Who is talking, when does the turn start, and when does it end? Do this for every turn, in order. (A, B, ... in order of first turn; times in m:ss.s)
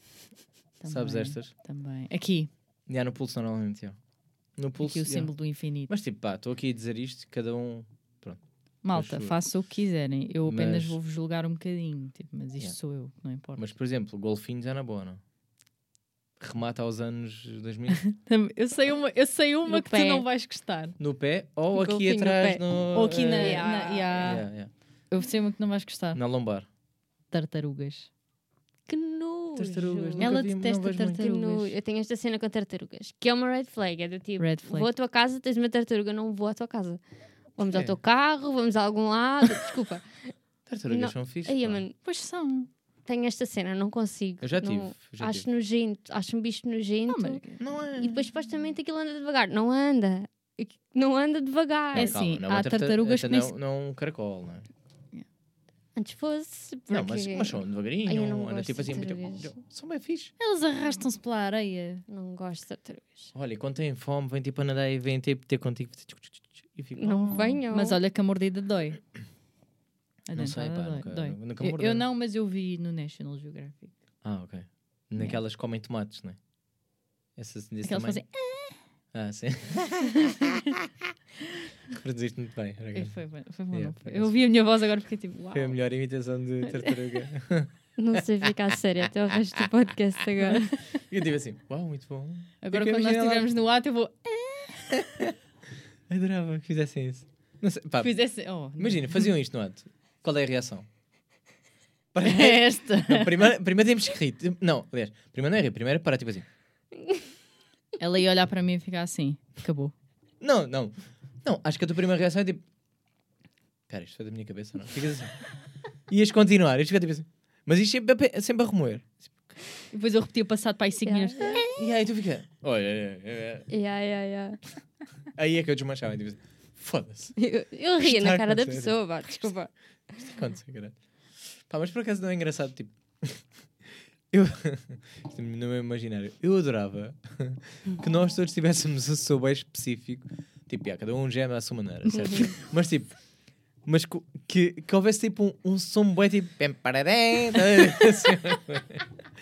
0:00.8-0:02.5 A
0:00.8-0:01.5 B
0:02.9-0:04.0 B
0:04.5-0:09.4 B
0:04.8-0:05.9 A
0:08.8-0:13.6 A
0:10.4-0:11.0 B
0:13.5-0:15.2 B
0:16.4-0:18.0 B
0:18.0-0:21.0 A
0:19.6-0:20.2 C
0:21.0-0:23.7 B
0:21.7-0:22.7 C
0:22.9-0:26.2 A
0:23.3-0:24.4 C
0:24.2-0:24.7 B
0:26.1-0:26.7 B
0:27.3-0:28.1 A
0:28.9-0:30.4 C
0:29.5-0:31.2 B
0:30.2-0:31.7 A
0:31.1-0:37.0 C
0:34.4-0:34.9 A
0:37.6-0:40.3 C
0:40.7-0:41.8 B
0:40.9-0:42.0 C
0:42.0-0:42.7 A
0:43.0-0:52.2 C
0:44.4-0:45.4 B
0:47.1-0:47.6 A
0:47.6-0:48.2 B
0:51.9-0:54.7 B
0:51.9-0:53.5 A
0:55.9-0:59.5 C
0:56.9-1:00.3 B
1:00.4-1:02.0 A
1:02.1-1:03.3 C
1:03.3-1:07.6 B
1:07.0-1:08.0 C
1:07.3-1:09.1 A
1:10.3-1:13.9 A
1:10.3-1:12.0 B
1:14.2-1:16.4 B
1:17.4-1:18.2 B
1:17.8-1:18.8 A
1:19.1-1:20.2 B
1:20.3-1:20.6 A
1:21.9-1:24.3 B
1:22.9-1:25.8 A
1:25.5-1:28.5 B
1:28.0-1:30.8 C
1:31.0-1:33.5 B
1:32.6-1:35.1 A
1:36.1-1:38.1 B
1:38.0-1:39.3 A
1:38.8-1:40.9 B
1:42.1-1:46.5 B
1:42.2-1:43.5 A
1:48.0-1:49.9 A
1:50.4-1:52.6 B
1:53.9-1:55.5 B
1:56.1-1:59.5 B
1:59.9-2:01.7 A
2:01.0-2:01.7 C
2:01.7-2:03.7 B
2:03.7-2:04.6 C
2:05.3-2:07.4 B
2:07.4-2:10.2 C
2:08.0-2:09.5 B
2:10.2-2:13.6 B
2:14.3-2:23.3 B
2:22.1-2:22.5 A
2:22.1-2:22.6 C
2:23.8-2:29.1 B